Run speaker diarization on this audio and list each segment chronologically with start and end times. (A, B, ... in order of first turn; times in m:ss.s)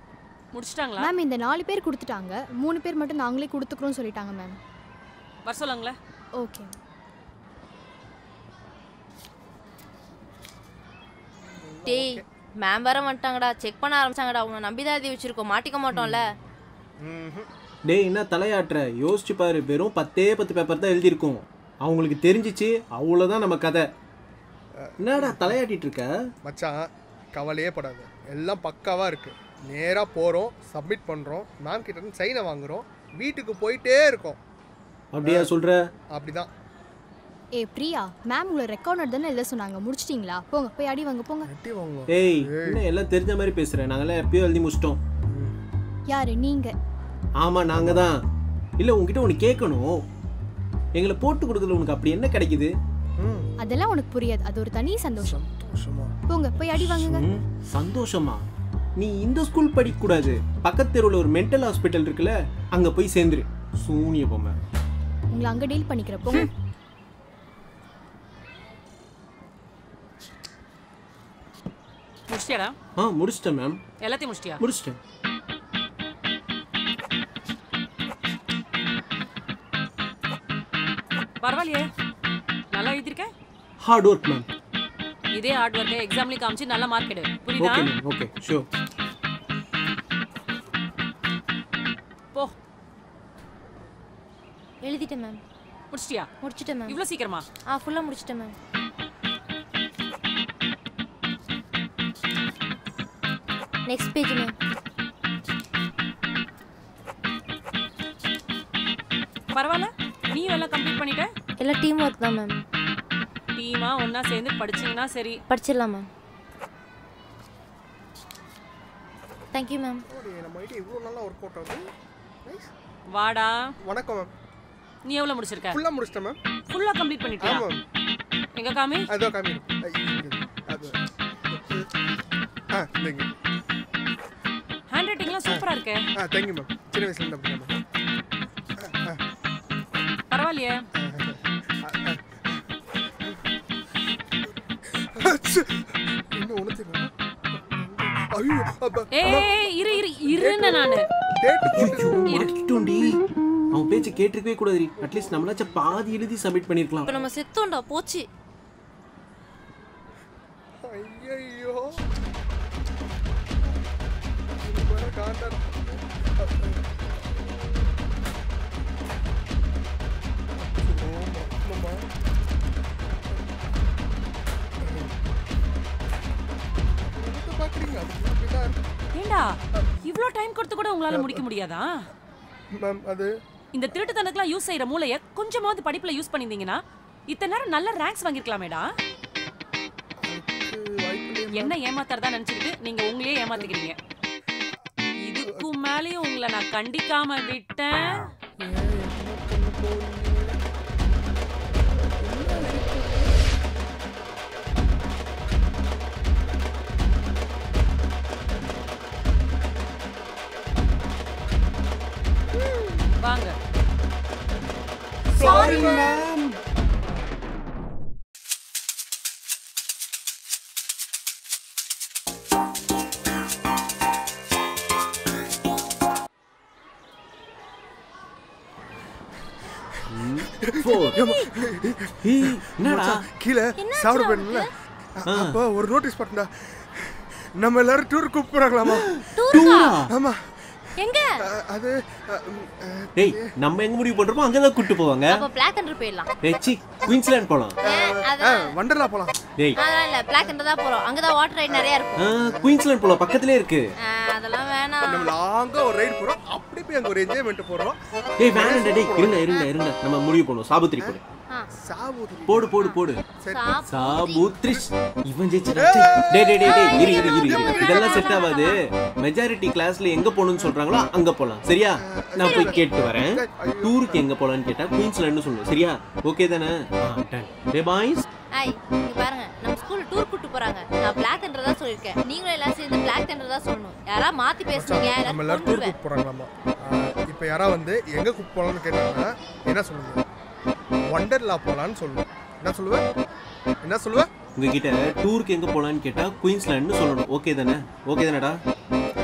0:00.5-0:01.1 A
0:01.0-0:04.6 B
0:05.4-0:06.0 A
0:06.4-0:06.7 B
0:11.5-0:12.2 C
0:11.9-0:16.3 D
0:15.9-0:16.2 C
0:17.0-0:17.5 C
0:17.9-0:23.8 E
0:24.8-0:25.6 C
0:25.0-0:26.1 E
0:26.4-0:34.4 C
0:35.1-0:35.7 E
0:35.2-0:35.5 C
0:36.1-0:36.5 C
0:37.6-0:41.5 B
0:41.4-0:42.8 C
0:42.1-0:45.0 E
0:46.1-0:46.7 B
0:47.4-0:48.2 E
0:47.7-0:48.1 C
0:48.8-0:49.9 E
0:51.0-0:52.7 E
0:53.2-0:53.5 C
0:53.6-0:55.4 B
0:55.2-0:56.1 C
0:56.3-0:57.2 B
0:57.0-0:58.4 E
0:59.0-1:04.6 E
1:05.3-1:06.5 B
1:12.3-1:12.7 A
1:13.0-1:13.8 E
1:14.0-1:14.6 A
1:14.6-1:15.0 E
1:21.4-1:21.9 A
1:22.7-1:23.3 A
1:23.8-1:24.5 E
1:25.3-1:27.9 A
1:27.6-1:28.6 E
1:34.8-1:35.4 D
1:35.9-1:36.3 A
1:36.4-1:37.0 D
1:36.9-1:37.4 A
1:37.7-1:38.5 D
1:43.9-1:44.5 D
1:49.5-1:51.3 A
1:51.6-1:52.6 D
1:53.6-1:55.4 A
1:55.5-1:56.1 D
1:59.5-2:00.0 D
2:00.1-2:01.9 C
2:02.4-2:02.7 C
2:03.1-2:03.7 A
2:03.8-2:04.3 C
2:05.1-2:05.8 A
2:05.7-2:06.4 C
2:06.7-2:07.6 A
2:07.4-2:07.8 C
2:08.6-2:09.1 A
2:09.1-2:11.0 C
2:12.7-2:13.3 C
2:14.9-2:16.1 A
2:16.2-2:17.7 C
2:18.8-2:19.2 C
2:20.3-2:20.8 A
2:21.0-2:22.6 C
2:25.0-2:32.4 C
2:29.2-2:31.1 A
2:31.7-2:33.2 E
2:33.7-2:37.2 E
2:35.0-2:35.7 C
2:37.0-2:38.2 D
2:40.8-2:42.0 C
2:44.6-2:46.9 C
2:50.7-2:52.1 C
2:54.8-2:55.1 C
2:57.1-2:58.8 C
2:59.2-3:01.9 A
3:01.1-3:01.4 C
3:02.7-3:03.3 C
3:03.7-3:08.9 A
3:10.2-3:11.8 C
3:11.5-3:14.0 A
3:15.2-3:18.3 A
3:15.4-3:15.7 C
3:18.6-3:21.3 C
3:21.9-3:23.6 C
3:33.2-3:33.6 A
3:35.3-3:36.5 E
3:35.4-3:36.3 C
3:50.1-3:51.2 E
3:50.6-4:00.8 C
3:52.2-3:53.2 E
3:53.8-3:54.7 D
3:55.3-3:55.6 E
3:59.3-3:59.9 D
3:59.5-4:00.1 E
4:01.0-4:01.4 D
4:01.4-4:03.5 C
4:03.2-4:05.4 E
4:05.3-4:06.3 D
4:06.4-4:07.8 E
4:07.8-4:08.7 D
4:07.8-4:09.3 C
4:09.8-4:12.2 D
4:11.7-4:12.8 C
4:12.2-4:13.8 E
4:14.0-4:15.3 D
4:15.0-4:19.6 C
4:18.4-4:21.2 E
4:21.7-4:22.9 C
4:22.5-4:23.2 E
4:23.4-4:23.7 C
4:23.5-4:24.5 D
4:23.9-4:38.2 E
4:25.7-4:28.4 C
4:26.6-4:28.8 D
4:32.0-4:34.2 C
4:32.4-4:32.8 D
4:38.5-4:45.9 D
4:44.7-4:50.2 C
4:51.1-4:53.0 C
4:53.8-4:54.3 C
4:54.6-4:58.6 E